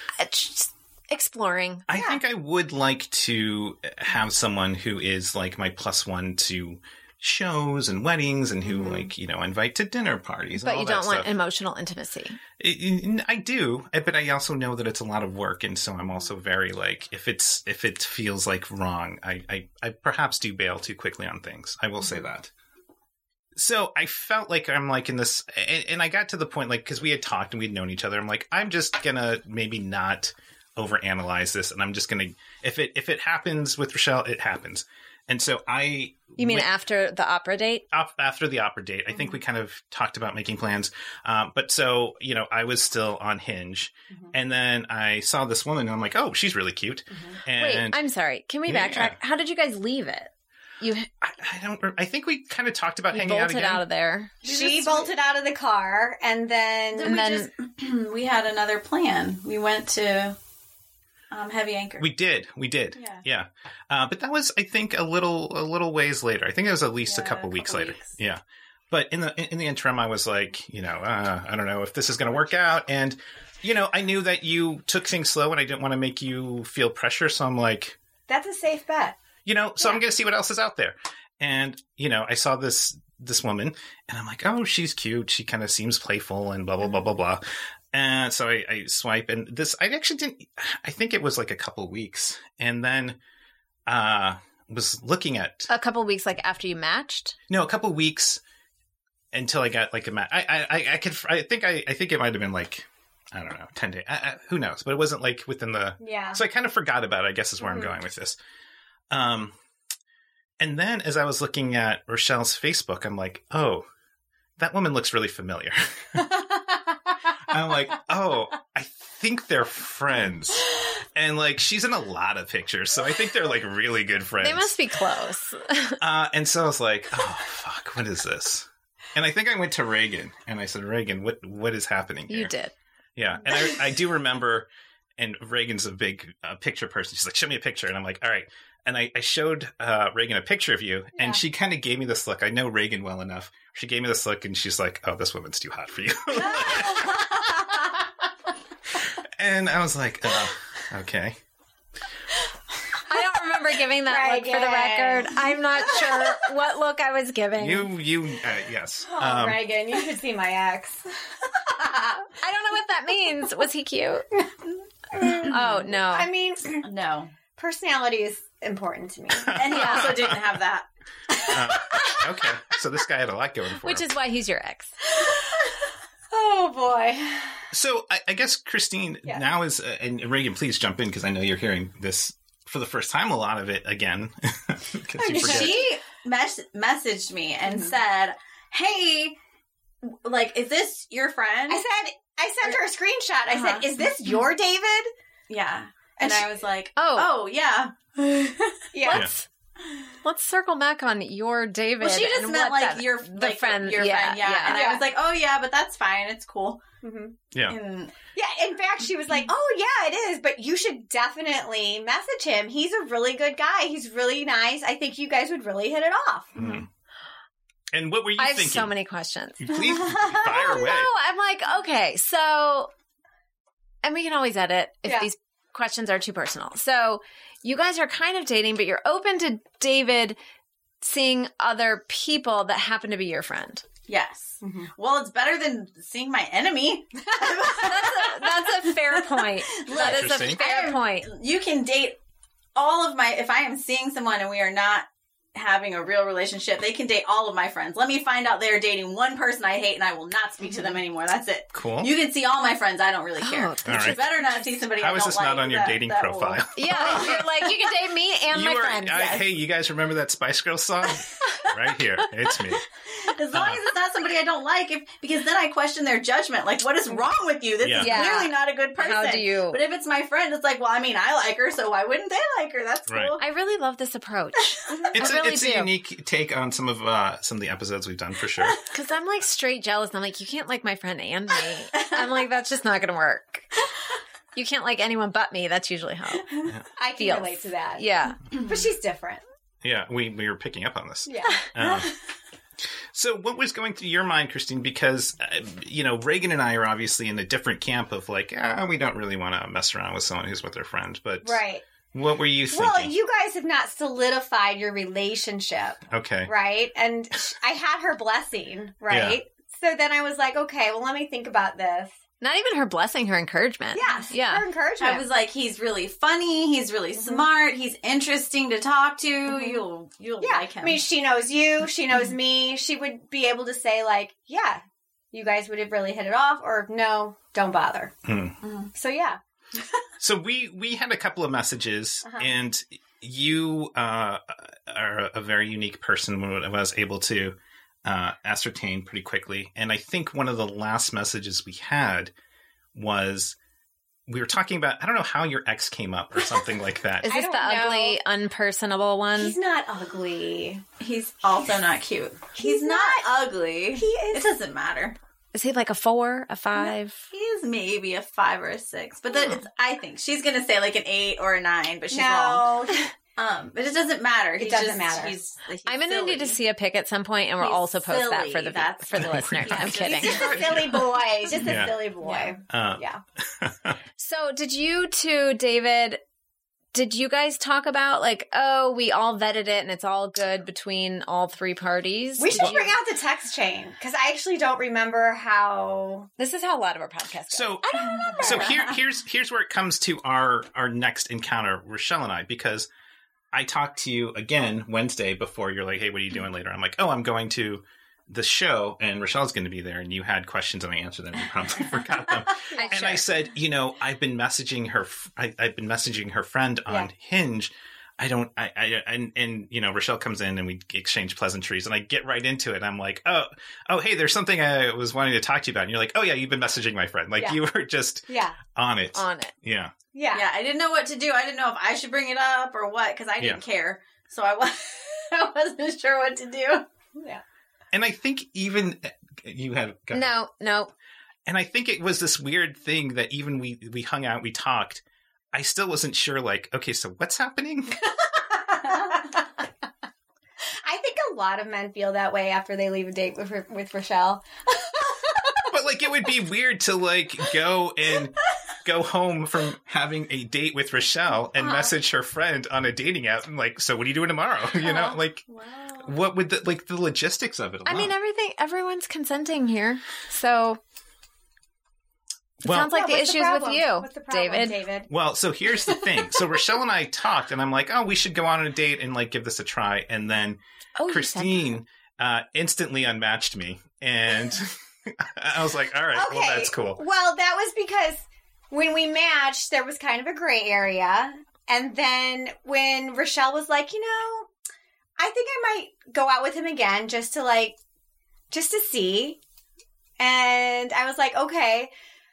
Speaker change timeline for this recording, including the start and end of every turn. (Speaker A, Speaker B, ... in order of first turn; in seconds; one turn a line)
Speaker A: 0.2-1.9
Speaker B: 1.9-11.3
Speaker C: 1.9-2.2
Speaker A: 10.6-12.4
Speaker B: 12.6-22.5
Speaker B: 23.6-36.7
Speaker A: 36.4-37.9
Speaker B: 37.9-48.0
Speaker C: 47.1-47.4
Speaker A: 47.5-50.3
Speaker B: 48.6-49.1
Speaker A: 50.8-51.1
Speaker B: 51.2-53.8
Speaker A: 53.1-54.3
Speaker D: 54.4-55.1
Speaker C: 54.4-57.1
Speaker D: 56.9-60.4
Speaker A: 57.0-57.5
Speaker D: 61.3-62.1
Speaker B: 62.0-78.0
Speaker D: 63.0-63.2
Speaker D: 67.0-68.1
Speaker C: 78.3-79.2
Speaker B: 79.4-87.4
Speaker B: 87.9-93.2
Speaker B: 93.9-95.7
Speaker A: 95.7-97.3
Speaker B: 97.5-98.4
Speaker B: 99.3-108.4
Speaker C: 106.0-106.4
Speaker C: 107.6-107.9
Speaker B: 109.1-109.5
Speaker B: 110.6-113.8
Speaker B: 114.6-116.2
Speaker C: 116.2-116.9
Speaker B: 117.5-124.7
Speaker A: 124.4-126.0
Speaker B: 126.0-132.5
Speaker A: 132.3-132.7
Speaker B: 133.2-147.3
Speaker C: 146.6-147.4
Speaker B: 149.0-151.3
Speaker A: 153.1-157.9
Speaker C: 154.1-156.3
Speaker B: 157.6-159.6
Speaker C: 159.1-161.1
Speaker C: 161.7-162.3
Speaker A: 162.4-164.2
Speaker C: 165.1-166.8
Speaker A: 165.4-166.3
Speaker D: 166.8-167.3
Speaker C: 167.6-169.6
Speaker B: 169.3-170.4
Speaker D: 169.5-172.1
Speaker A: 169.7-170.1
Speaker B: 171.5-174.1
Speaker A: 173.8-174.9
Speaker C: 175.1-175.7
Speaker C: 176.3-177.6
Speaker B: 177.7-185.8
Speaker C: 185.2-185.9
Speaker D: 185.2-189.3
Speaker C: 187.7-187.9
Speaker D: 190.0-191.8
Speaker C: 191.7-195.1
Speaker D: 193.5-194.0
Speaker D: 195.5-198.9
Speaker C: 196.2-196.5
Speaker A: 196.9-197.3
Speaker C: 198.9-199.3
Speaker A: 199.0-199.4
Speaker A: 200.2-204.8
Speaker D: 202.0-206.8
Speaker C: 204.7-205.0
Speaker C: 207.0-207.3
Speaker B: 207.5-207.8
Speaker D: 207.7-208.1
Speaker C: 208.3-216.8
Speaker B: 216.5-216.9
Speaker B: 217.9-218.9
Speaker A: 218.4-219.7
Speaker B: 219.6-221.1
Speaker C: 220.0-220.7
Speaker A: 220.4-222.9
Speaker A: 224.0-230.4
Speaker A: 231.0-233.8
Speaker D: 234.1-242.2
Speaker C: 234.6-234.9
Speaker C: 237.4-237.8
Speaker A: 237.8-241.3
Speaker B: 239.9-240.6
Speaker D: 242.7-256.7
Speaker B: 251.7-252.1
Speaker A: 253.4-254.7
Speaker B: 253.8-254.2
Speaker B: 255.0-257.5
Speaker A: 256.8-259.4
Speaker B: 258.5-262.8
Speaker D: 263.1-273.4
Speaker B: 263.5-263.8
Speaker B: 267.8-268.2
Speaker A: 268.0-269.8
Speaker B: 273.1-273.4
Speaker A: 273.4-275.9
Speaker B: 275.1-278.8
Speaker A: 278.9-283.6
Speaker A: 284.5-286.5
Speaker C: 287.0-289.4
Speaker A: 287.2-288.4
Speaker B: 289.8-292.1
Speaker C: 291.3-291.6
Speaker D: 291.8-292.1
Speaker B: 292.8-301.6
Speaker C: 301.4-301.8
Speaker B: 302.1-303.1
Speaker C: 302.7-312.1
Speaker B: 306.1-306.5
Speaker B: 309.1-309.4
Speaker A: 312.4-314.6
Speaker C: 313.9-315.2
Speaker D: 315.0-321.0
Speaker C: 317.2-317.4
Speaker C: 319.5-319.8
Speaker C: 320.4-328.1
Speaker B: 328.2-328.6
Speaker D: 328.6-328.9
Speaker C: 328.9-329.4
Speaker B: 330.2-342.3
Speaker B: 342.9-343.6
Speaker B: 344.3-347.3
Speaker A: 347.2-349.6
Speaker C: 347.2-348.2
Speaker C: 349.3-350.8
Speaker D: 351.0-355.1
Speaker C: 352.6-353.3
Speaker C: 353.9-354.4
Speaker A: 355.5-357.2
Speaker D: 357.3-366.6
Speaker C: 362.1-363.0
Speaker C: 364.6-365.3
Speaker A: 365.9-370.6
Speaker D: 367.6-372.5
Speaker B: 369.1-371.0
Speaker C: 370.0-373.2
Speaker B: 371.6-372.0
Speaker B: 372.7-374.0
Speaker A: 374.2-376.2
Speaker A: 376.9-382.9
Speaker C: 382.4-386.3
Speaker B: 382.5-382.9
Speaker A: 386.4-388.7
Speaker B: 387.5-392.9
Speaker D: 388.0-388.9
Speaker B: 393.5-419.9
Speaker C: 402.7-403.0
Speaker A: 402.7-403.2
Speaker C: 418.3-418.6
Speaker A: 419.1-419.5
Speaker C: 420.1-420.4
Speaker D: 420.3-426.9
Speaker C: 427.2-427.4
Speaker B: 427.9-430.3
Speaker A: 430.1-430.9
Speaker B: 431.4-438.0
Speaker C: 438.5-439.4
Speaker C: 440.8-445.7
Speaker B: 445.7-455.4
Speaker D: 455.0-456.1
Speaker B: 456.0-458.1
Speaker A: 457.8-460.8
Speaker A: 462.6-464.8
Speaker B: 462.6-462.9
Speaker C: 462.8-465.1
Speaker B: 465.1-477.0
Speaker A: 470.9-471.7
Speaker C: 476.1-484.5
Speaker C: 485.2-487.8
Speaker C: 488.5-489.4
Speaker C: 490.2-491.9